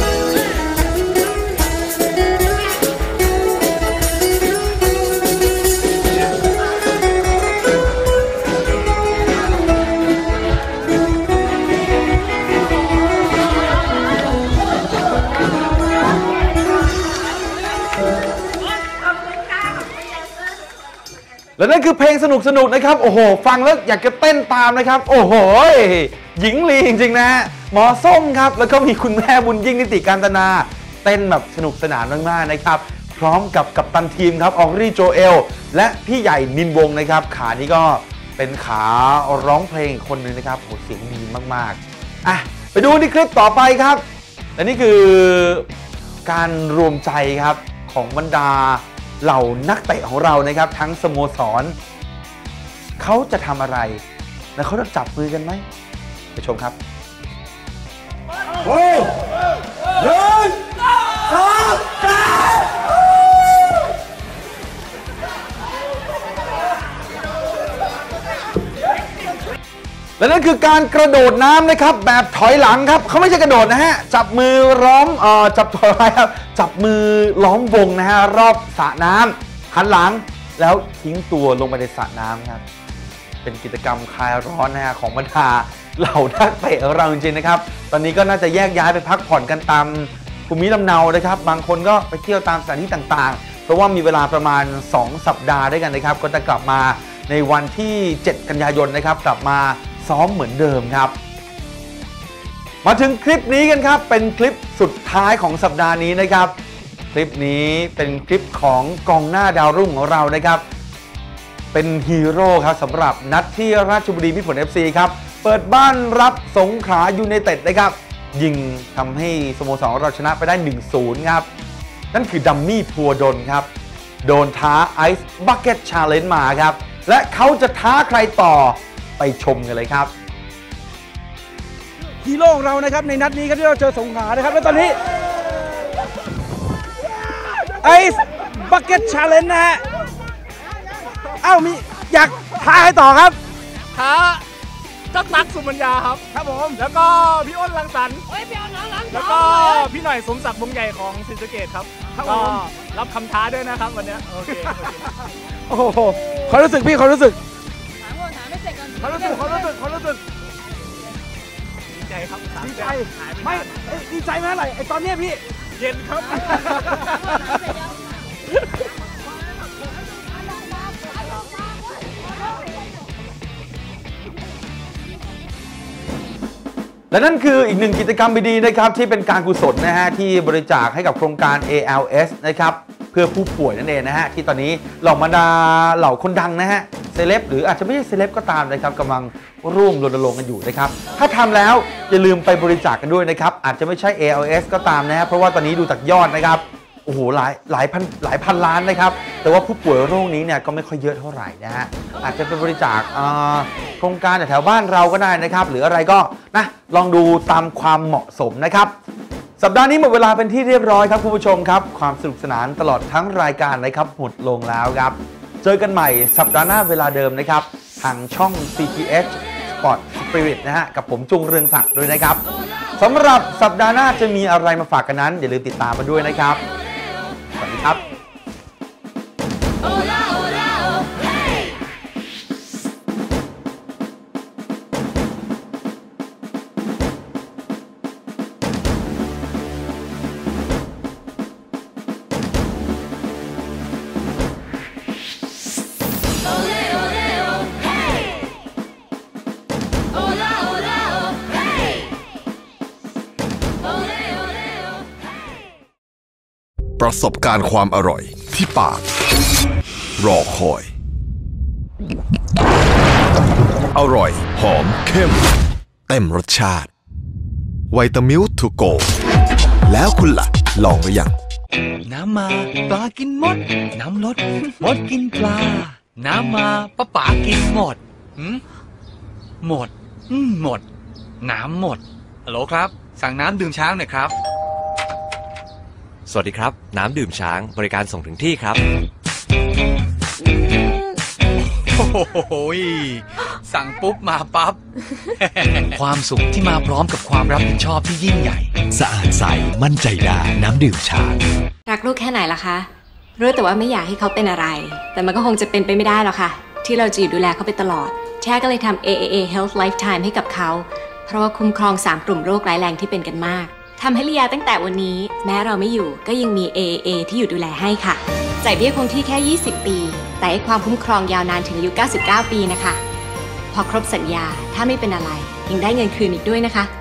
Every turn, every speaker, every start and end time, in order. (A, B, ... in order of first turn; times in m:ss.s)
0:21.6-0:44.0 A
0:44.6-0:45.7 A
0:46.2-0:51.8 A
0:53.0-0:54.0 A
0:54.6-0:55.6 A
0:56.3-0:56.8 A
1:10.2-1:22.6 A
1:23.4-1:41.2 A
1:42.8-1:46.5 A
1:47.1-1:50.6 A
1:51.7-2:01.5 A
2:02.1-2:03.7 A
2:04.2-2:10.1 A
2:12.2-2:15.0 B
2:17.8-2:19.8 B
2:21.4-2:23.4 B
2:23.9-2:24.4 C
2:25.1-2:28.3 C
2:26.4-2:26.8 B
2:29.1-2:35.1 C
2:32.2-2:32.5 B
2:35.7-2:37.4 B
2:39.0-2:40.2 B
2:39.0-2:39.7 C
2:41.9-2:44.0 C
2:42.6-2:45.4 B
2:45.8-2:47.2 C
2:57.1-3:28.9 A
3:29.6-3:42.4 A
3:43.0-3:46.6 A
3:47.6-3:48.0 A
4:17.0-4:19.1 D
4:20.2-4:20.9 D
4:23.9-4:25.5 D
4:26.1-4:26.9 D
4:27.9-4:29.1 D
4:29.8-4:31.3 D
4:32.0-4:38.6 E
4:39.6-4:40.8 E
4:41.4-4:44.3 E
4:46.3-4:48.7 F
4:51.7-4:54.8 E
4:55.4-4:58.7 E
4:58.9-5:01.4 G
5:01.9-5:23.0 H
5:23.7-5:26.9 H